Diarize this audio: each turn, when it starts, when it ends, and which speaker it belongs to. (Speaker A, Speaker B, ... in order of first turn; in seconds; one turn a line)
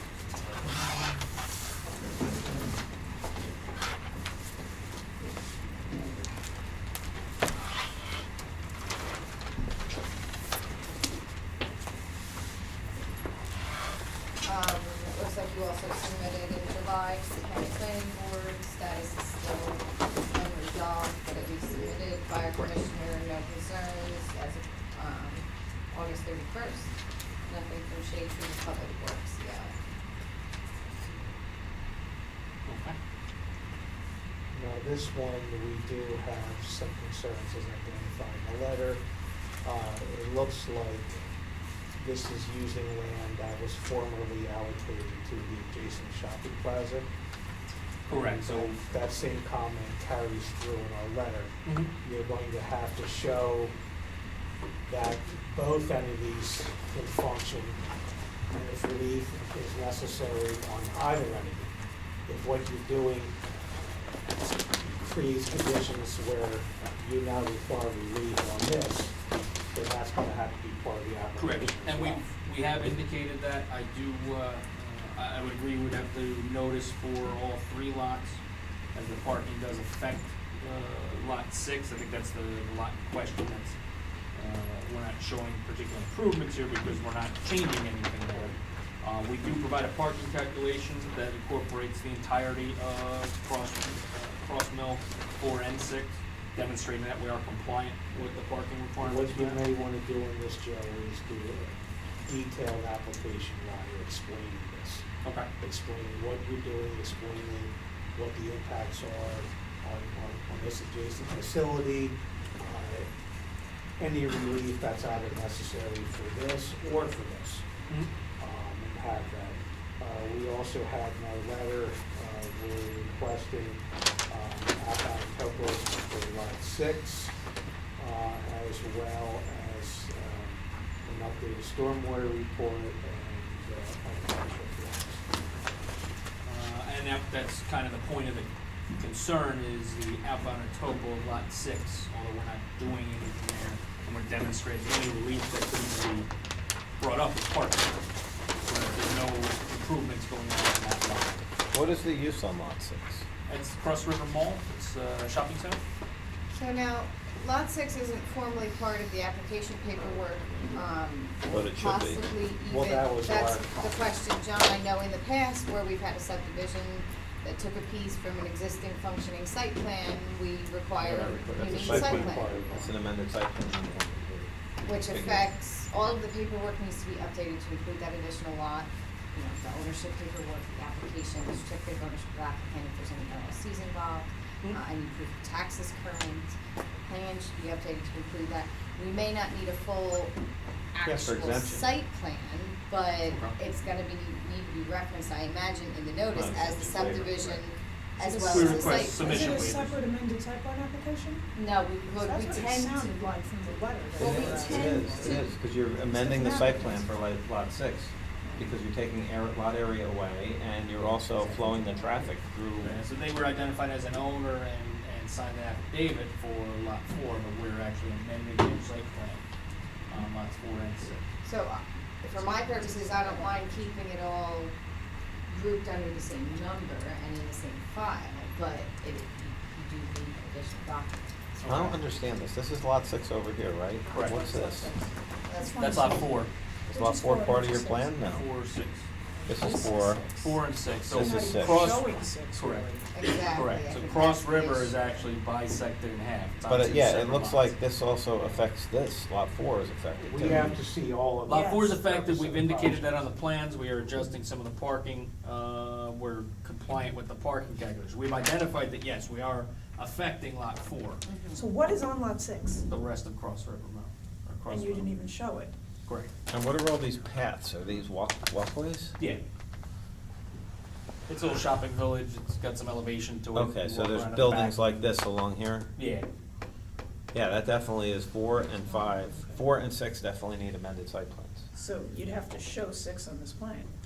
Speaker A: 14.4-26.9
Speaker A: 27.5-29.7
Speaker B: 32.7-33.0
Speaker C: 34.5-39.0
Speaker C: 39.6-41.3
Speaker C: 42.0-47.1
Speaker B: 48.1-48.8
Speaker C: 48.1-53.8
Speaker B: 51.7-51.9
Speaker C: 54.9-57.8
Speaker C: 58.5-61.7
Speaker C: 62.3-63.4
Speaker C: 64.0-69.2
Speaker C: 69.7-72.3
Speaker B: 71.4-78.4
Speaker B: 78.9-83.8
Speaker B: 84.3-99.6
Speaker C: 99.0-105.1
Speaker B: 105.2-105.5
Speaker C: 105.6-113.1
Speaker C: 114.0-117.7
Speaker C: 118.4-127.3
Speaker C: 128.0-135.3
Speaker B: 136.4-146.3
Speaker B: 147.0-147.9
Speaker B: 148.6-151.4
Speaker D: 151.7-153.2
Speaker B: 153.5-155.8
Speaker A: 156.5-172.9
Speaker D: 161.5-162.2
Speaker C: 162.6-164.0
Speaker D: 171.0-175.5
Speaker C: 171.6-172.8
Speaker A: 174.8-190.4
Speaker A: 190.9-199.7
Speaker D: 191.1-191.9
Speaker B: 193.3-193.6
Speaker D: 196.3-197.6
Speaker E: 198.2-201.5
Speaker B: 198.5-199.9
Speaker A: 201.5-203.3
Speaker E: 202.1-205.4
Speaker A: 204.1-205.4
Speaker D: 204.2-213.0
Speaker E: 206.1-207.1
Speaker B: 212.8-219.4
Speaker B: 220.1-221.2
Speaker A: 221.4-224.8
Speaker E: 222.7-223.3
Speaker A: 225.5-231.9
Speaker B: 231.6-231.9
Speaker D: 231.7-234.9
Speaker E: 234.1-238.3
Speaker B: 234.1-234.4
Speaker B: 235.7-236.5
Speaker D: 236.9-238.4
Speaker B: 238.2-239.1
Speaker E: 239.3-240.6
Speaker D: 239.5-240.2
Speaker B: 240.4-247.8
Speaker D: 241.1-241.9
Speaker E: 241.2-243.1
Speaker A: 243.1-244.9
Speaker D: 246.7-250.7
Speaker B: 248.4-248.7
Speaker C: 250.2-253.3
Speaker B: 251.4-261.2
Speaker E: 251.5-251.9
Speaker A: 261.2-261.7
Speaker E: 261.5-262.8
Speaker B: 262.9-265.1
Speaker E: 264.7-265.8
Speaker D: 266.5-269.1
Speaker B: 271.3-275.1
Speaker D: 273.5-275.9
Speaker B: 275.9-276.2
Speaker D: 277.3-281.6
Speaker E: 278.9-279.5
Speaker E: 281.7-283.9